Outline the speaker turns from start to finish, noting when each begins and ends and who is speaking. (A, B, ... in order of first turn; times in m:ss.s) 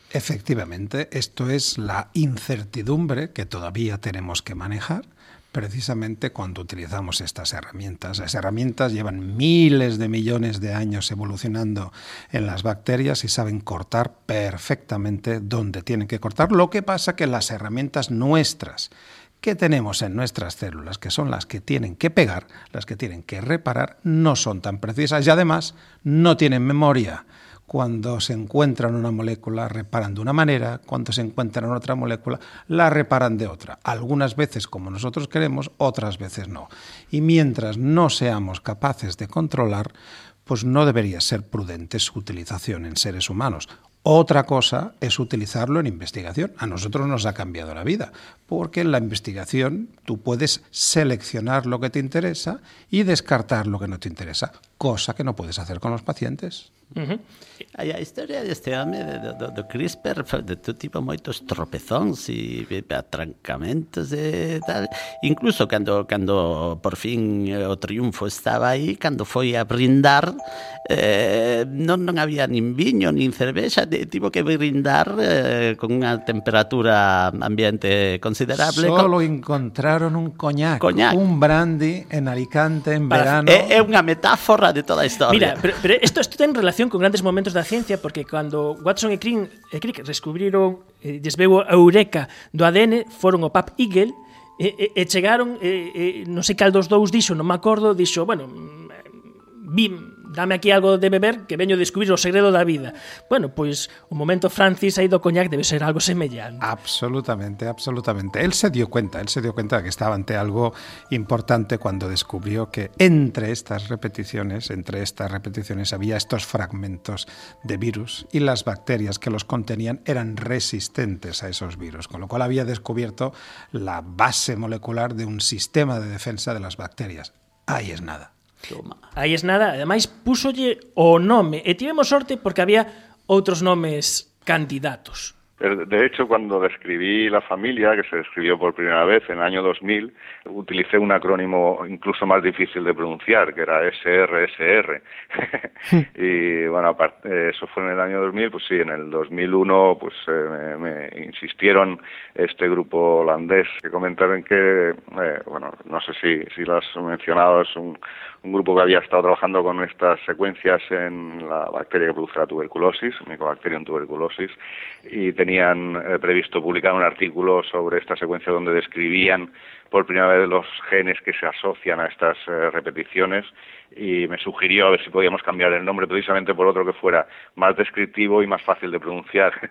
0:00.1-0:39.9 A
0:40.4-0:56.7 A
0:57.0-0:57.2 B
0:57.7-1:10.3 C
1:10.9-1:19.1 C
1:18.6-1:23.7 A
1:20.8-1:21.2 C
1:23.2-1:25.6 C
1:25.3-1:46.6 B
1:46.6-2:08.3 A
2:08.7-2:09.0 C
2:09.2-2:15.3 B
2:15.6-2:44.5 D
2:45.1-2:59.5 D